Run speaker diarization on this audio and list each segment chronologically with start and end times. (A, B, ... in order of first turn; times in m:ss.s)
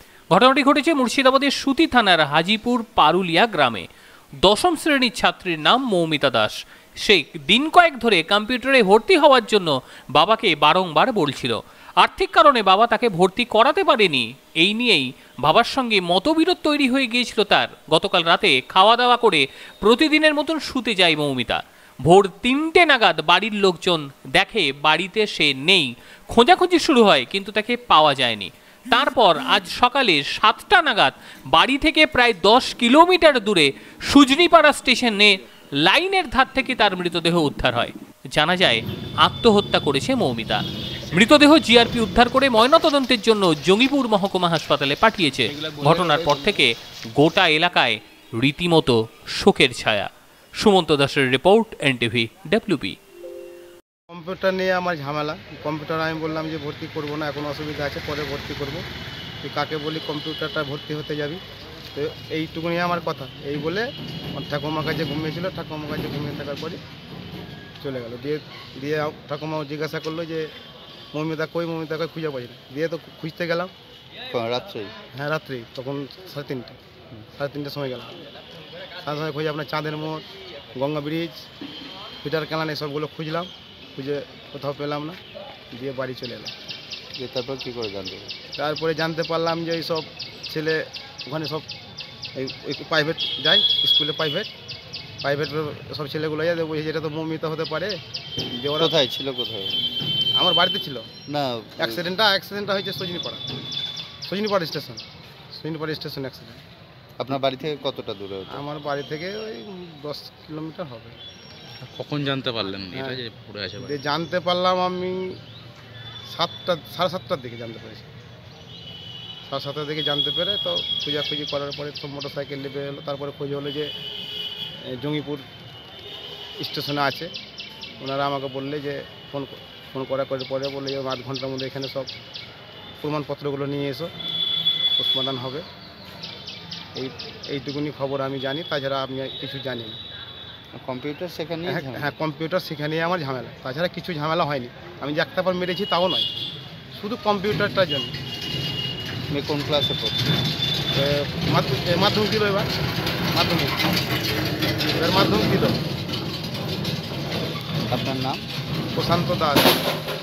0:00.3-0:03.8 A
0:04.4-0:53.0 A
0:45.7-0:46.5 B
0:54.1-0:58.8 C
0:59.4-1:01.4 C
1:01.9-1:06.8 C
1:07.8-1:10.5 C
1:11.1-1:13.7 C
1:14.3-1:14.9 D
1:15.1-1:16.8 C
1:17.3-1:18.1 C
1:19.0-1:21.4 C
1:22.2-1:25.2 C
1:25.7-1:26.5 C
1:27.2-1:28.3 D
1:28.6-1:31.6 C
1:32.4-1:34.5 C
1:35.2-1:38.0 C
1:38.5-1:38.9 C
1:38.8-1:39.8 D
1:40.3-1:41.1 C
1:41.3-1:42.0 D
1:41.8-1:43.4 C
1:44.2-1:45.0 C
1:45.5-1:46.6 C
1:47.2-1:48.6 D
1:48.5-1:51.2 C
1:51.8-1:54.0 B
1:52.9-1:53.2 C
1:53.8-1:55.4 C
1:56.3-1:58.1 C
1:59.5-2:03.9 C
2:04.9-2:05.4 C
2:06.6-2:07.3 C
2:08.0-2:12.1 C
2:13.0-2:14.1 C
2:15.0-2:15.6 C
2:16.9-2:20.0 C
2:20.7-2:22.1 D
2:21.6-2:26.3 C
2:26.9-2:28.1 C
2:29.3-2:30.3 D
2:30.9-2:32.7 C
2:33.3-2:33.8 C
2:34.9-2:35.8 C
2:37.9-2:38.4 D
2:38.9-2:39.7 C